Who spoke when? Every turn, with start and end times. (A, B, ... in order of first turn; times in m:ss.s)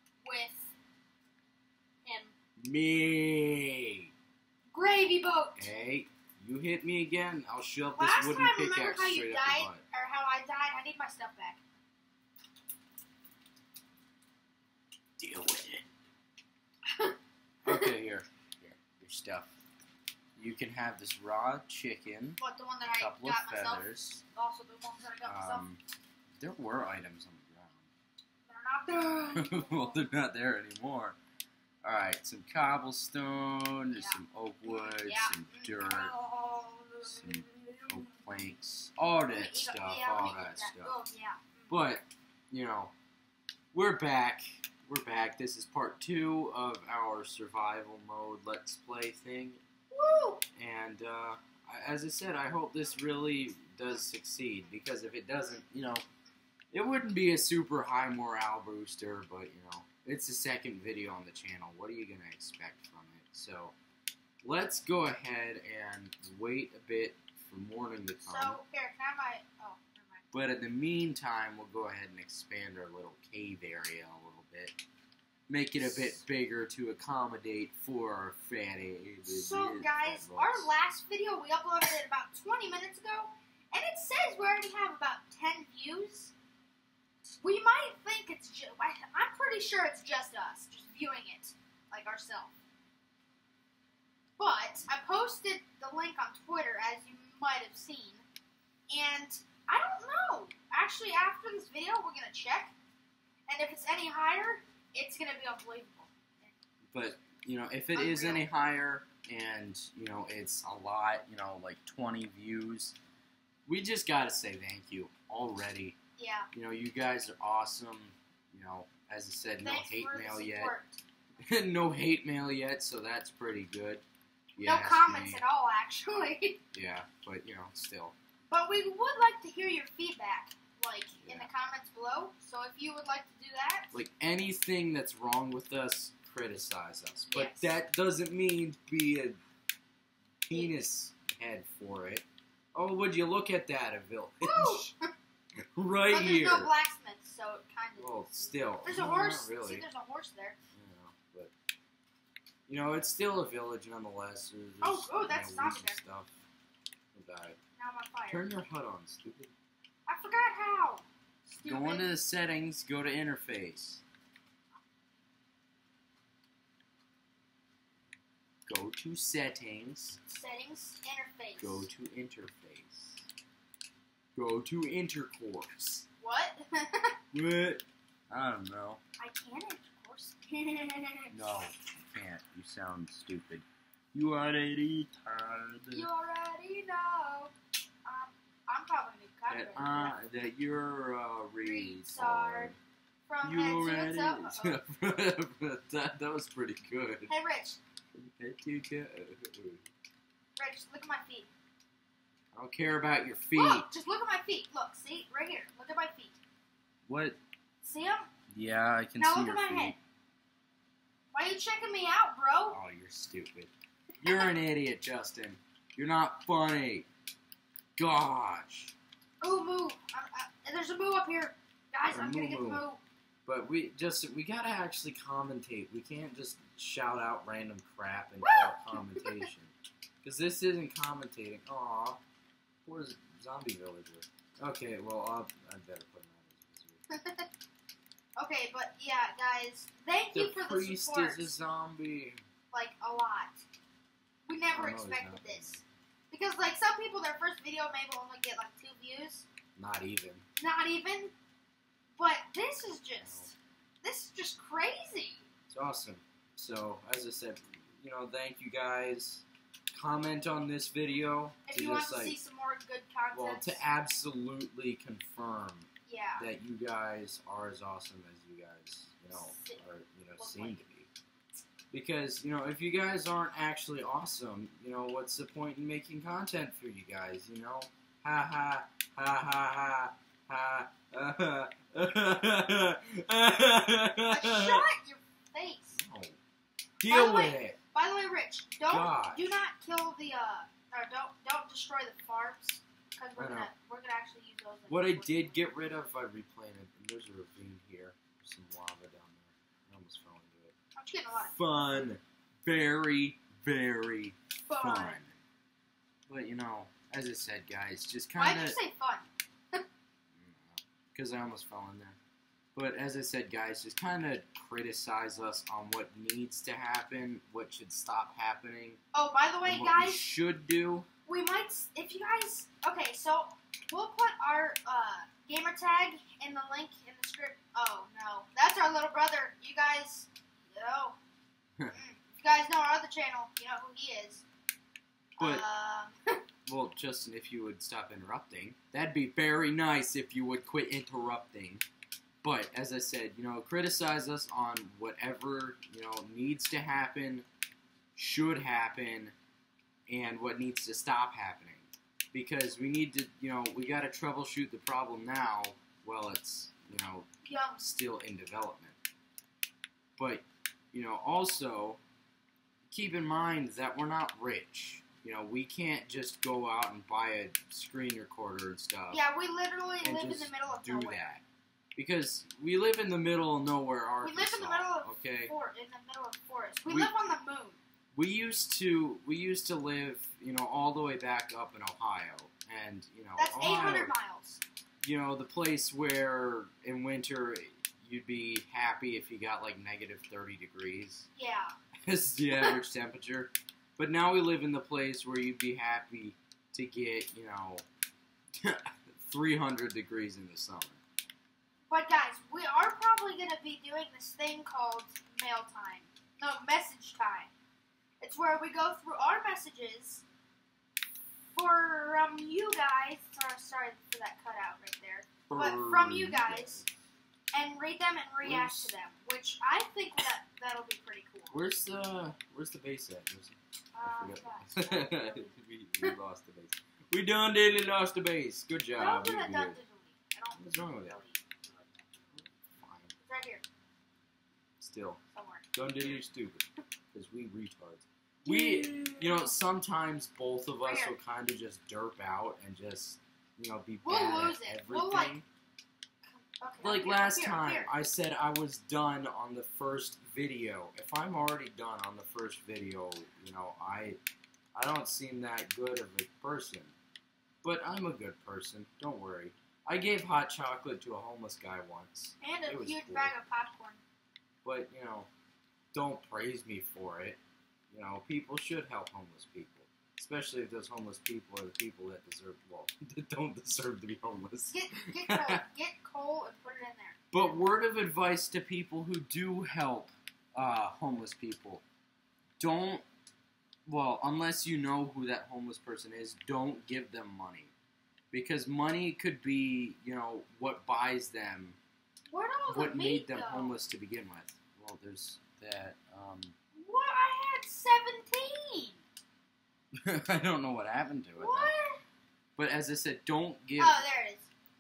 0:00.2-0:00.7 A
0:02.0-0:02.3 A
0:02.6-0:04.1 B
0:04.7-0:05.7 A
0:05.6-0:09.8 B
0:08.0-0:11.6 A
0:15.2-0:15.8 B
0:17.6-0:19.5 B
0:17.7-0:17.9 A
0:20.4-0:22.4 B
0:22.4-0:25.7 A
0:23.0-0:24.2 B
0:25.3-0:25.8 B
0:26.4-0:27.9 B
0:28.5-0:30.0 A
0:29.3-0:31.2 B
0:31.8-0:36.2 B
0:33.9-0:38.2 A
0:37.0-0:41.0 B
0:39.3-0:41.7 A
0:41.7-0:42.9 B
0:43.7-0:49.6 B
0:49.9-0:50.4 A
0:50.6-0:56.0 B
0:56.7-1:03.7 B
1:04.4-1:08.6 B
1:08.2-1:10.2 A
1:10.3-1:14.8 B
1:15.5-1:20.7 B
1:19.3-1:26.3 A
1:27.4-1:32.5 A
1:34.4-1:38.3 A
1:38.9-1:42.7 A
1:43.5-1:46.5 A
1:46.9-1:53.0 B
1:48.0-1:48.4 A
1:53.7-1:56.0 B
1:56.2-1:56.5 A
1:56.5-2:00.8 B
1:59.6-2:01.0 A
2:01.4-2:04.0 B
2:04.6-2:05.4 B
2:04.6-2:06.6 A
2:06.7-2:08.2 B
2:08.5-2:14.0 A
2:11.2-2:11.5 B
2:13.9-2:19.4 B
2:17.3-2:17.8 A
2:20.5-2:24.9 B
2:20.5-2:20.8 A
2:24.4-2:25.1 A
2:25.8-2:26.7 B
2:26.1-2:30.6 A
2:28.0-2:29.9 B
2:30.7-2:31.5 B
2:32.7-2:36.4 B
2:34.8-2:36.0 A
2:37.1-2:37.6 B
2:37.8-2:38.5 A
2:38.3-2:39.5 B
2:40.1-2:42.1 A
2:41.6-2:44.0 B
2:48.7-2:50.2 B
2:50.3-2:51.9 A
2:51.6-2:53.2 B
2:54.4-2:56.0 B
2:56.2-2:57.2 A
2:57.3-2:59.0 B
2:59.2-3:01.4 A
3:01.3-3:06.1 B
3:05.9-3:07.5 A
3:08.0-3:10.2 A
3:09.5-3:12.8 B
3:11.6-3:12.7 A
3:13.3-3:14.8 A
3:13.4-3:17.3 B
3:17.3-3:17.8 A
3:18.2-3:19.8 B
3:20.6-3:21.5 A
3:22.5-3:23.9 B
3:23.5-3:26.4 A
3:27.1-3:27.4 B
3:27.8-3:28.3 A
3:28.5-3:30.0 B
3:29.2-3:30.0 A
3:31.3-3:32.8 A
3:32.7-3:37.1 B
3:38.0-3:38.9 B
3:39.4-3:43.0 A
3:42.1-3:42.9 B
3:43.5-3:52.2 B
3:48.4-3:49.5 A
3:52.9-3:57.0 B
3:57.1-3:57.5 A
3:58.4-4:01.6 A
4:00.3-4:02.4 B
4:02.7-4:03.6 A
4:04.5-4:09.5 A
4:04.7-4:05.8 B
4:09.8-4:10.4 B
4:10.6-4:11.3 A
4:12.2-4:15.4 A
4:13.2-4:13.5 B
4:15.7-4:22.4 B
4:21.7-4:23.8 A
4:23.3-4:25.9 B
4:26.1-4:26.5 A
4:26.4-4:31.1 B
4:29.3-4:29.8 A
4:30.4-4:30.8 A
4:31.9-4:44.9 B
4:44.2-4:46.0 A
4:46.0-4:46.4 B
4:47.0-4:47.8 B
4:47.1-4:55.6 A
4:48.9-4:49.5 B
4:53.4-4:53.7 B
4:54.9-5:00.8 B
5:01.0-5:01.6 A
5:01.5-5:05.3 B
5:04.7-5:05.2 A
5:06.3-5:08.8 B
5:08.4-5:09.8 A
5:10.4-5:12.2 B
5:12.8-5:19.0 B
5:19.1-5:20.3 A
5:19.6-5:21.1 B
5:21.3-5:31.2 A
5:31.9-5:34.4 A
5:35.4-5:36.4 A
5:35.4-5:35.6 B
5:36.7-5:41.8 B
5:42.4-5:47.5 B
5:48.2-5:49.3 B
5:50.1-5:57.3 B
5:57.4-5:57.9 A
5:57.8-5:59.0 B
6:00.2-6:02.0 B
6:02.9-6:09.2 B
6:09.1-6:11.3 A
6:10.0-6:11.4 B
6:12.0-6:15.5 B
6:14.2-6:17.8 A
6:18.1-6:24.1 B
6:23.4-6:24.6 A
6:25.0-6:31.3 B
6:31.4-6:31.7 A
6:32.0-6:37.8 B
6:32.5-6:32.8 A
6:38.6-6:41.0 B
6:41.9-6:47.5 A
6:48.2-6:50.2 A
6:51.5-6:56.8 A
6:55.5-6:56.9 B
6:57.5-7:01.6 A
6:58.4-6:59.0 B
7:01.5-7:09.8 B
7:03.9-7:06.2 A
7:09.0-7:12.1 A
7:10.6-7:11.2 B
7:12.8-7:13.2 B
7:13.2-7:13.6 A
7:14.8-7:15.2 B
7:15.3-7:15.7 A
7:15.7-7:25.4 B
7:18.4-7:19.5 A
7:20.8-7:21.2 A
7:24.0-7:25.4 A
7:26.2-7:27.9 A
7:26.8-7:34.2 B
7:34.7-7:36.9 B
7:37.6-7:43.3 B
7:42.4-7:44.0 A
7:44.6-7:45.3 B
7:45.9-7:47.4 B
7:47.9-7:55.6 B
7:54.7-7:57.5 A
7:57.3-8:01.8 B
8:02.6-8:03.0 B
8:03.9-8:07.7 B
8:08.3-8:11.8 B
8:12.3-8:13.8 A
8:12.7-8:16.6 B
8:16.8-8:19.0 A
8:20.0-8:21.7 B
8:21.4-8:22.0 A
8:22.6-8:24.0 B
8:23.8-8:24.5 A